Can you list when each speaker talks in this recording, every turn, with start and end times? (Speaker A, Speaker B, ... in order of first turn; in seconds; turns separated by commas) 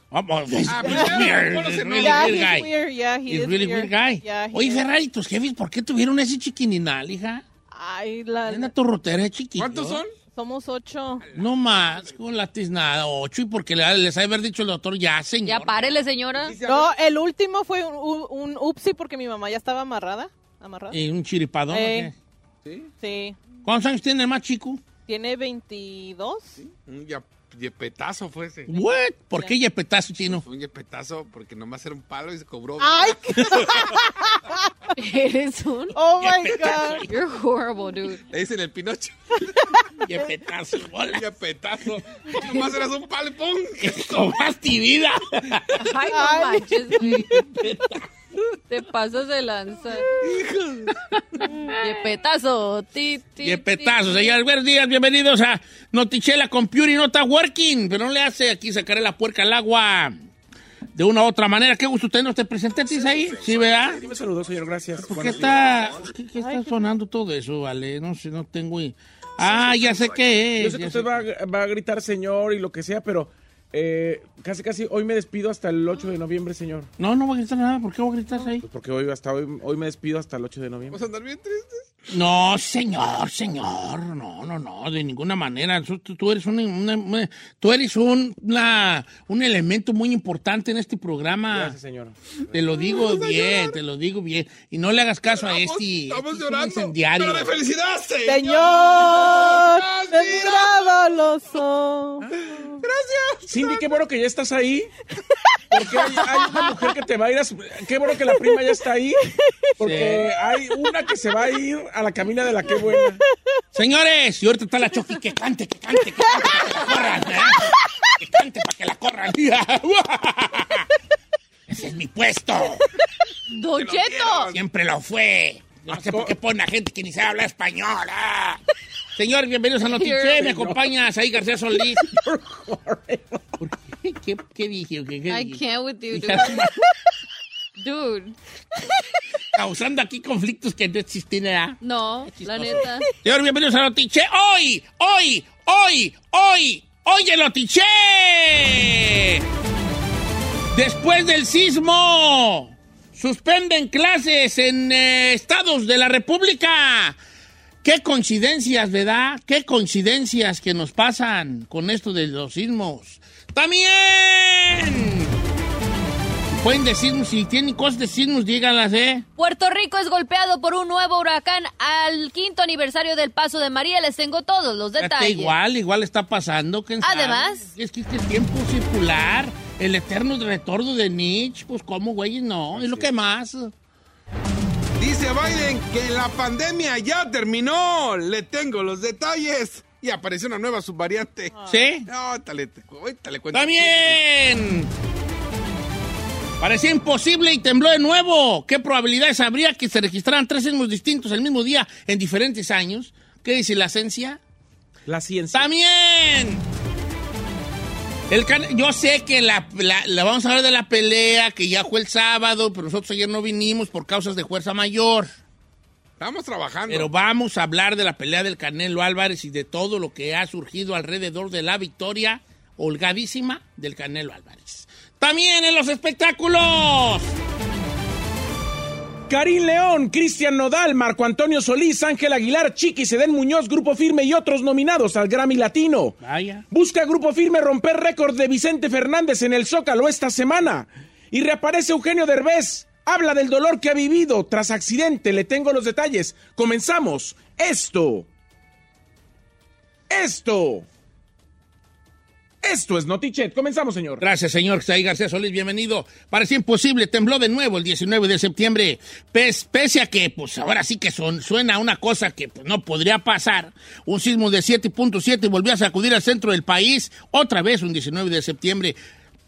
Speaker A: 0.1-2.8, Speaker B: 0.7-2.5, Speaker C: 0.8-1.3, Speaker C: 2.0-4.8, Speaker A: 3.3-7.4, Speaker C: 7.7-8.7, Speaker A: 8.5-10.0, Speaker B: 9.6-10.1, Speaker C: 10.3-11.3, Speaker A: 11.3-16.0, Speaker D: 15.5-16.6, Speaker E: 16.6-16.9, Speaker C: 16.6-21.0, Speaker A: 20.9-22.1, Speaker C: 21.7-22.1, Speaker B: 22.7-22.9, Speaker C: 23.0-23.4, Speaker A: 23.6-24.8, Speaker C: 25.1-26.5, Speaker B: 26.6-28.7, Speaker A: 28.7-30.4, Speaker B: 30.4-34.0, Speaker C: 32.8-34.1, Speaker D: 35.0-36.0, Speaker C: 36.0-37.0, Speaker A: 36.2-37.1, Speaker D: 37.1-38.2, Speaker B: 38.3-39.2, Speaker A: 40.0-41.2, Speaker B: 41.1-44.2, Speaker A: 43.8-45.8, Speaker D: 45.8-47.4, Speaker C: 46.1-46.7, Speaker A: 46.9-47.9, Speaker D: 48.7-50.1, Speaker B: 50.2-51.0, Speaker D: 51.8-54.3, Speaker A: 53.4-60.1, Speaker A: 61.0-64.0, Speaker E: 64.0-65.6, Speaker A: 65.0-71.1, Speaker C: 66.4-66.8, Speaker E: 70.6-76.9, Speaker A: 77.0-78.6, Speaker E: 78.6-81.0, Speaker B: 80.9-81.8, Speaker A: 82.1-91.8, Speaker E: 91.5-92.5, Speaker A: 92.5-97.5, Speaker B: 92.8-93.8, Speaker B: 95.3-100.9, Speaker C: 98.2-102.3, Speaker B: 102.4-103.5, Speaker E: 103.5-104.9, Speaker E: 105.7-109.2, Speaker C: 106.5-106.8, Speaker C: 108.3-108.7, Speaker E: 109.8-113.2, Speaker A: 109.8-110.3, Speaker C: 112.9-113.2, Speaker A: 113.7-120.9, Speaker C: 116.3-116.7, Speaker A: 121.7-122.9, Speaker D: 123.5-124.5, Speaker B: 123.7-124.6, Speaker A: 124.5-128.6, Speaker E: 125.9-126.3, Speaker A: 129.2-132.1, Speaker D: 129.9-130.4, Speaker E: 130.4-130.8, Speaker E: 132.0-133.7, Speaker A: 133.6-136.8, Speaker D: 135.3-136.6, Speaker D: 137.8-138.4, Speaker A: 139.5-141.8, Speaker D: 141.8-143.1, Speaker A: 142.4-149.4, Speaker A: 150.7-157.2, Speaker A: 157.8-165.3, Speaker A: 166.6-169.3, Speaker D: 169.4-175.5, Speaker A: 175.0-183.7, Speaker D: 177.0-177.7, Speaker E: 182.8-183.0, Speaker B: 185.0-191.6, Speaker A: 191.7-192.1, Speaker B: 192.1-194.2, Speaker A: 193.5-194.9, Speaker A: 196.6-204.4, Speaker E: 205.1-205.7, Speaker A: 205.5-206.6, Speaker A: 208.3-215.3, Speaker B: 216.2-217.1, Speaker A: 216.9-227.3, Speaker E: 229.3-236.2, Speaker A: 236.2-236.7, Speaker E: 236.7-248.3, Speaker E: 250.1-250.9, Speaker E: 252.6-254.2, Speaker A: 254.2-269.0